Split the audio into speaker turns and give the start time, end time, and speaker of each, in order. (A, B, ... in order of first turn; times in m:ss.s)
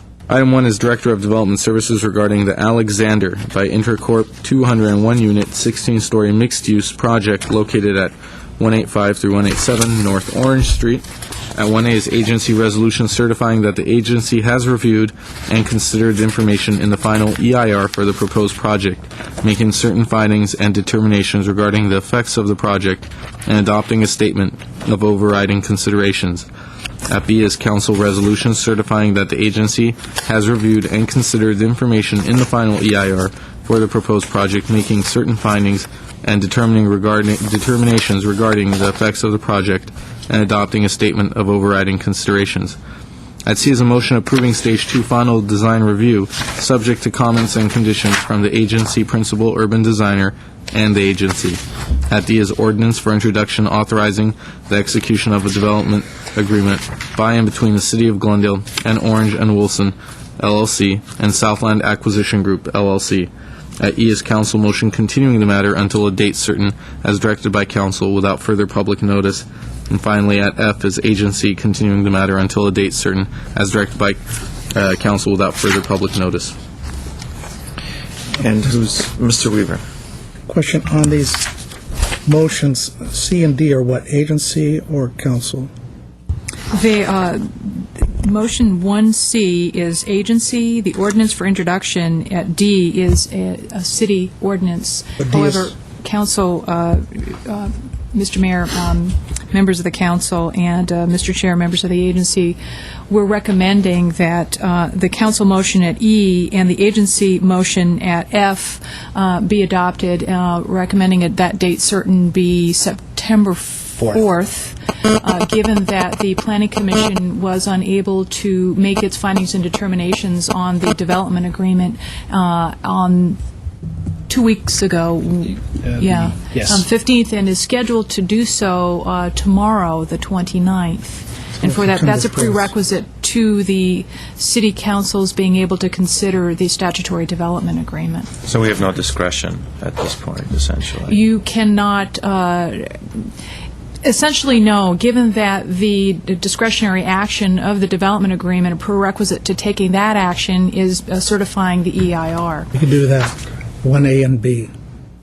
0:00.3-0:26.5 A
0:27.1-0:42.8 A
0:43.4-1:14.2 A
1:14.7-1:16.6 A
1:18.4-1:19.8 B
1:20.5-1:21.5 C
1:22.2-1:25.7 C
1:26.7-2:03.4 D
1:35.2-1:35.7 C
2:04.3-2:18.3 D
2:11.7-2:12.7 C
2:18.4-2:21.2 B
2:21.1-2:23.3 D
2:24.0-2:32.7 D
2:32.8-2:34.7 C